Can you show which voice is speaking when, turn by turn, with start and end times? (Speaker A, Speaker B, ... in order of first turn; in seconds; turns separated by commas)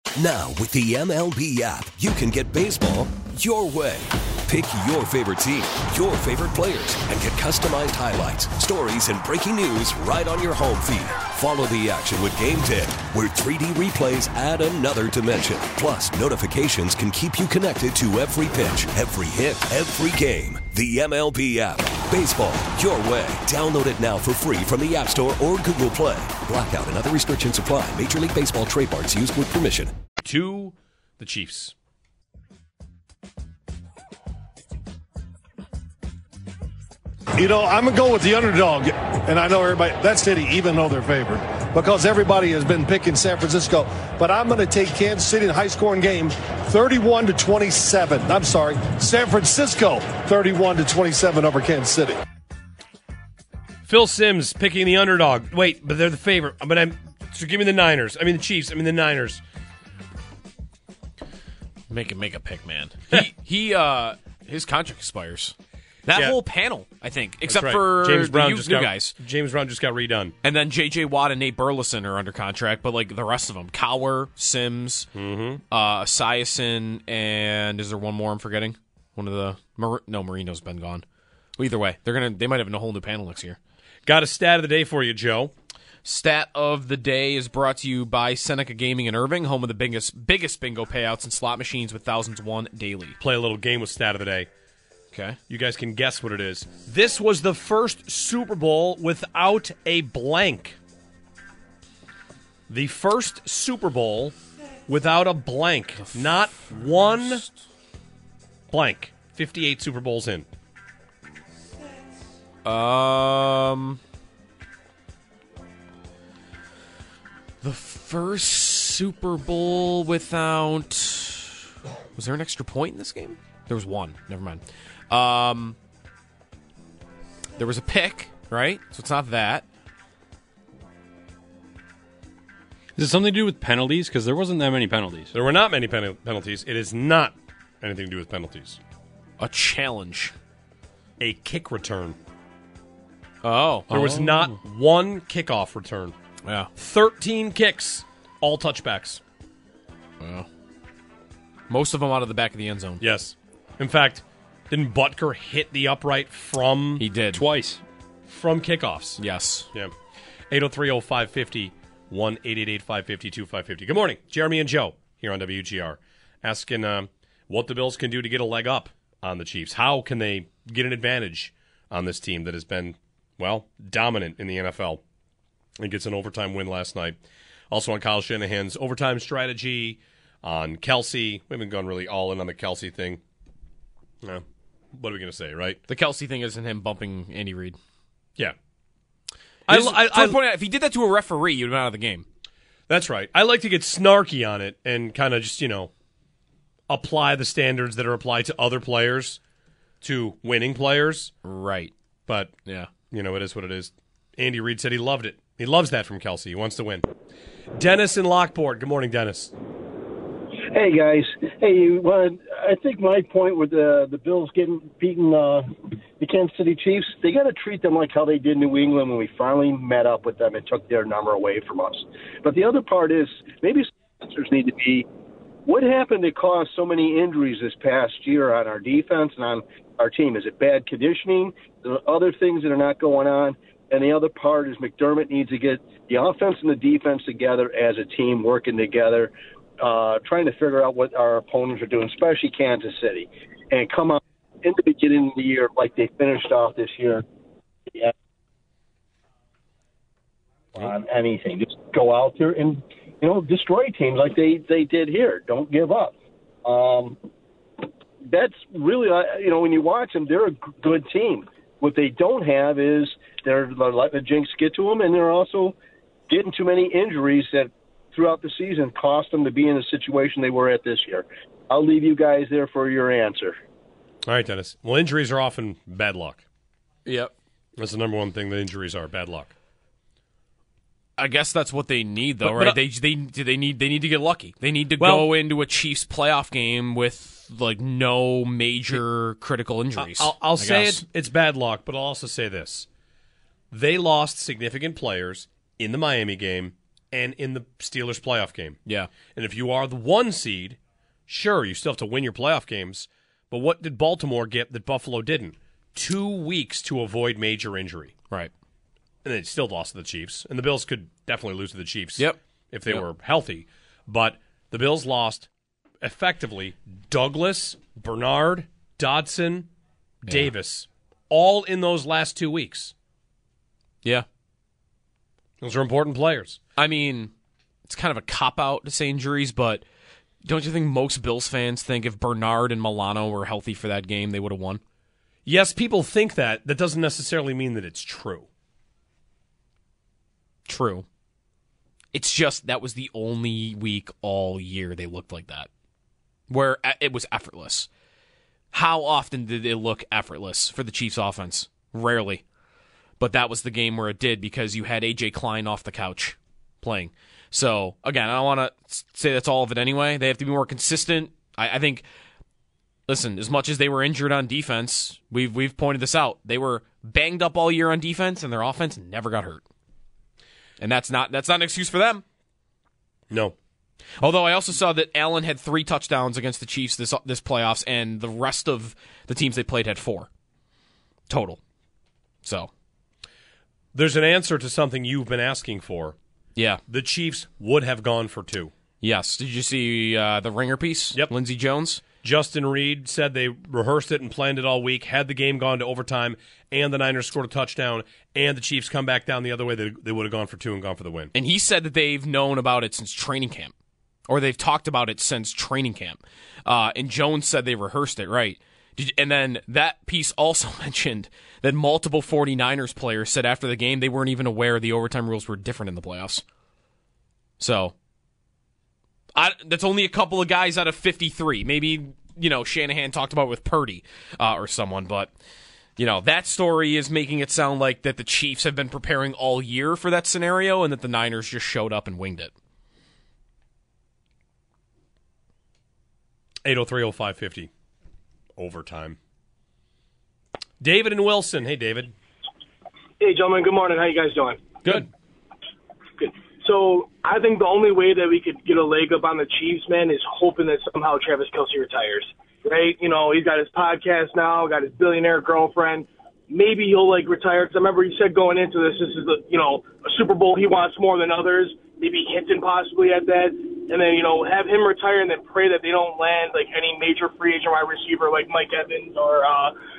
Speaker A: 0.1-29.9, Speaker B: 30.2-31.7, Speaker C: 37.4-52.2, Speaker B: 53.9-59.4, Speaker D: 61.9-65.5, Speaker D: 66.1-69.1, Speaker B: 67.5-70.3, Speaker D: 70.4-75.1, Speaker B: 75.1-75.6, Speaker D: 75.7-81.0, Speaker D: 81.6-83.6, Speaker B: 84.0-85.5, Speaker D: 86.0-93.2, Speaker B: 93.2-94.5, Speaker D: 95.1-95.4, Speaker B: 95.5-100.8, Speaker B: 102.7-104.4, Speaker B: 104.9-107.5, Speaker B: 108.7-110.5, Speaker D: 112.6-114.0, Speaker D: 117.6-121.6, Speaker D: 122.2-125.8, Speaker D: 127.6-129.6, Speaker E: 133.0-135.3, Speaker B: 135.3-138.8, Speaker D: 139.4-140.3, Speaker B: 141.2-142.2, Speaker D: 143.4-144.5, Speaker B: 143.9-146.1, Speaker D: 146.4-146.7, Speaker B: 146.8-149.2, Speaker D: 150.2-150.5, Speaker D: 151.7-153.0, Speaker B: 153.0-157.0, Speaker D: 157.0-157.4, Speaker E: 157.3-157.8, Speaker B: 158.3-159.2, Speaker D: 159.2-159.7, Speaker B: 160.5-175.0, Speaker B: 175.8-177.2, Speaker B: 177.7-183.2, Speaker B: 184.2-185.8, Speaker D: 185.9-187.8, Speaker B: 189.7-190.4, Speaker D: 189.7-192.2, Speaker B: 192.9-195.9, Speaker B: 196.9-199.4, Speaker B: 200.0-201.3, Speaker D: 201.4-201.9, Speaker B: 202.3-202.5, Speaker B: 203.1-207.0, Speaker B: 207.8-209.5, Speaker F: 210.7-225.1, Speaker F: 225.7-247.2, Speaker F: 250.7-257.2, Speaker F: 258.3-265.8, Speaker F: 266.3-273.6, Speaker B: 274.2-276.4, Speaker D: 277.1-277.3, Speaker B: 277.8-279.5, Speaker D: 281.2-291.0, Speaker B: 282.4-282.8, Speaker B: 285.0-285.3, Speaker B: 290.0-292.9, Speaker B: 293.7-298.8, Speaker B: 299.3-308.1, Speaker B: 309.2-315.5, Speaker B: 316.0-319.7, Speaker B: 320.2-322.9, Speaker B: 325.6-326.6, Speaker D: 326.8-327.3, Speaker D: 327.9-329.8, Speaker D: 330.4-334.8, Speaker B: 335.4-338.5, Speaker D: 340.7-341.1, Speaker D: 342.1-345.7, Speaker D: 346.5-347.9, Speaker D: 348.7-352.4, Speaker D: 353.2-362.0, Speaker D: 363.1-369.6, Speaker D: 370.8-372.2, Speaker B: 373.3-373.5, Speaker D: 374.2-380.3, Speaker D: 381.3-381.6, Speaker D: 382.4-382.7, Speaker B: 383.9-386.1, Speaker D: 386.6-386.8, Speaker B: 386.9-388.7, Speaker D: 389.0-392.0, Speaker B: 392.2-401.3, Speaker D: 401.3-403.7, Speaker D: 404.3-416.4, Speaker D: 417.6-417.9, Speaker D: 419.4-425.3, Speaker D: 426.0-432.5, Speaker B: 436.6-437.7, Speaker B: 438.6-439.2, Speaker B: 440.8-442.1, Speaker G: 443.2-444.6, Speaker G: 446.2-469.7